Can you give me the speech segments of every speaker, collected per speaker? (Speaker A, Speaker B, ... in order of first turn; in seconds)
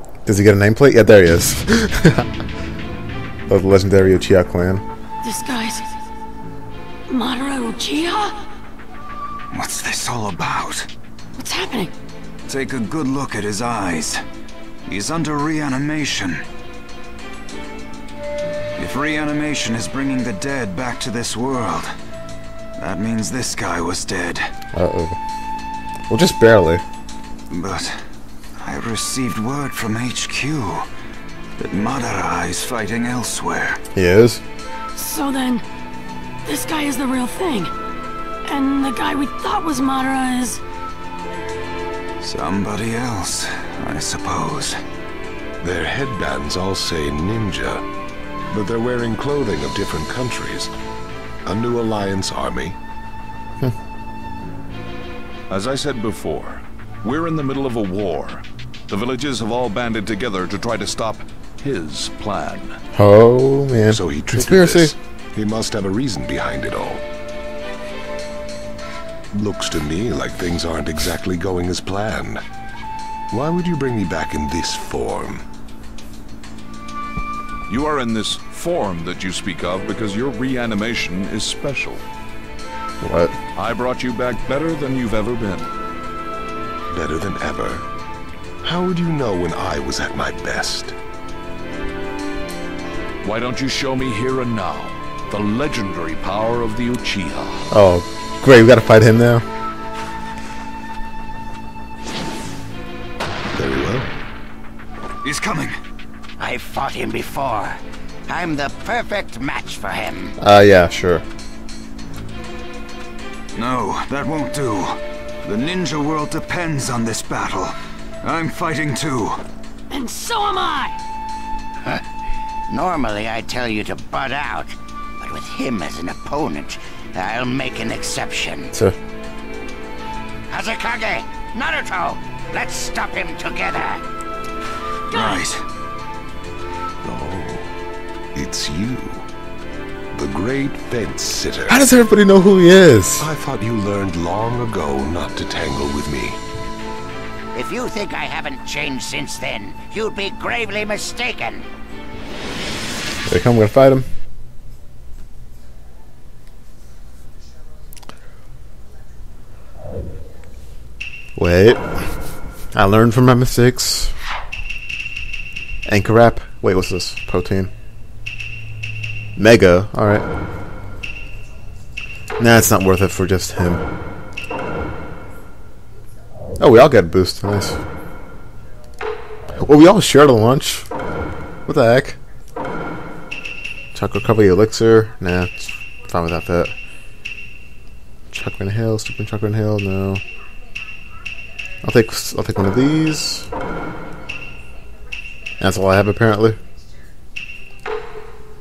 Speaker A: 0.2-2.3, 3.5-4.8, 24.7-25.2, 26.1-26.8, 34.0-34.4, 62.9-64.9, 83.0-83.4, 97.7-99.5, 110.4-111.2, 141.7-143.3, 153.3-154.1, 161.4-161.9, 162.7-164.2, 165.9-167.7, 169.4-170.3, 172.4-173.8, 176.6-177.8, 179.6-180.9, 181.7-182.2, 183.9-186.7, 188.3-190.2, 191.8-193.5, 195.6-196.6
Speaker B: 5.2-5.9, 7.1-8.4, 11.4-11.9, 35.0-35.6, 36.5-37.7, 38.5-40.6, 119.9-121.0
Speaker C: 9.5-10.9, 12.5-14.2, 14.8-16.5, 18.8-21.9, 22.8-24.5, 27.5-28.0, 28.6-30.9, 31.6-33.8, 42.2-44.8, 105.2-105.8, 113.5-119.4, 135.1-135.7
Speaker D: 45.6-47.8, 48.5-50.7, 51.5-52.8, 63.9-67.0, 69.3-72.4, 73.3-75.5, 86.9-87.9, 88.6-91.0, 103.5-104.1, 137.0-137.7, 138.3-139.3, 140.1-141.8, 143.2-146.4
Speaker E: 55.5-62.8, 77.7-82.0, 83.5-85.7, 93.2-97.6
Speaker F: 106.4-110.3, 122.7-128.7, 130.5-134.0, 147.5-151.7